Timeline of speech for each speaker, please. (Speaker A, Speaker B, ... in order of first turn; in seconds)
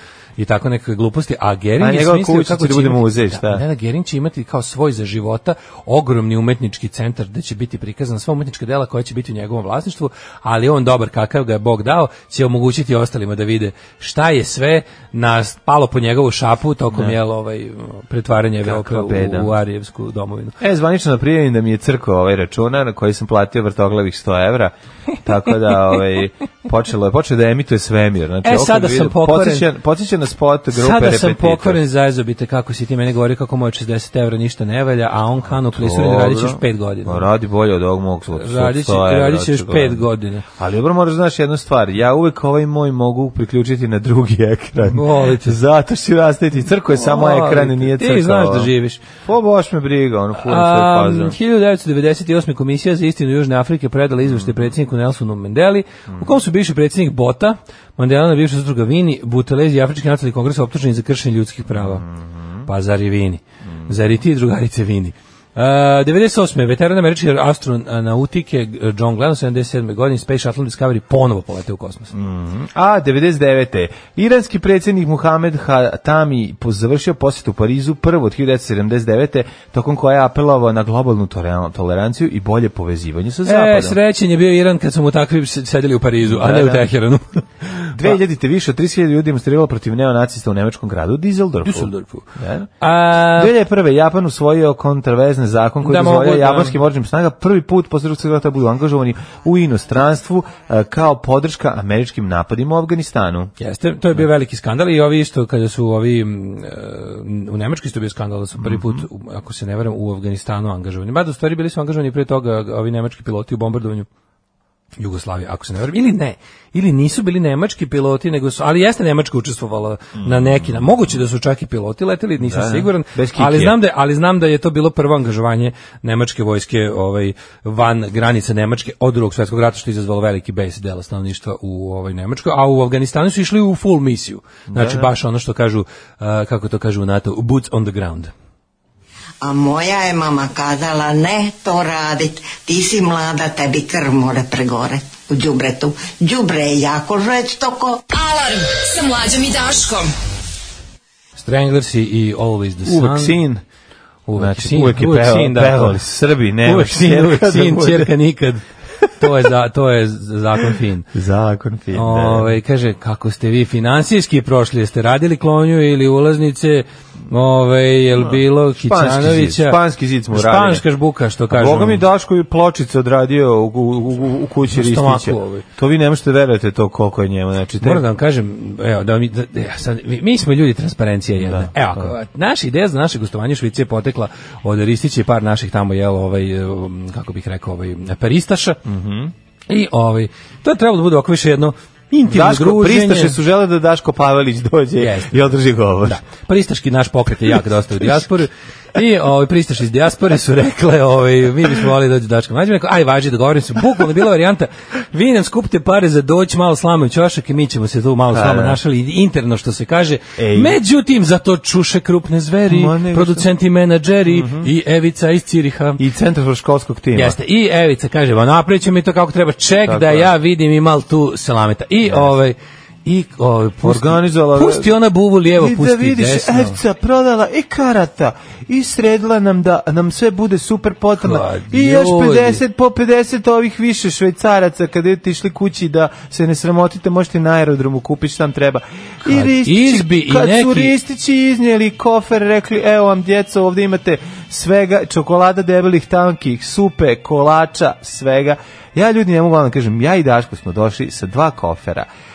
Speaker A: 0.4-20.6, 28.4-29.7, 30.7-37.3, 38.3-40.4, 44.9-45.6, 47.0-49.0, 50.4-62.0, 62.6-72.1, 83.5-88.2, 91.6-93.5, 95.8-96.8, 103.6-114.1, 115.0-138.3, 151.4-153.4, 154.3-156.0, 156.6-158.7, 159.2-161.1, 161.9-169.8, 170.3-172.0, 174.7-175.6, 177.8-188.8, 189.7-193.3, 195.0-195.5, 196.0-216.0, 217.1-226.8, 231.2-232.6, 239.2-240.9
Speaker B: 1.8-3.6, 18.6-19.5, 20.6-31.8, 35.5-51.4, 61.7-62.6, 72.1-84.0, 86.2-86.9, 87.9-92.7, 93.3-103.5, 108.6-109.0, 120.2-120.8, 122.4-123.8, 134.7-135.1, 152.8-153.6, 154.3-158.1, 159.0-159.3, 161.1-162.5, 168.2-170.8, 171.5-178.0, 181.4-182.1, 188.8-189.3, 192.2-196.2, 208.3-208.8, 210.4-210.8, 212.7-213.5, 214.3-214.7, 216.0-217.4, 219.8-220.3, 222.0-222.3, 223.8-224.9, 225.5-252.1
Speaker C: 139.4-148.0
Speaker D: 148.1-150.1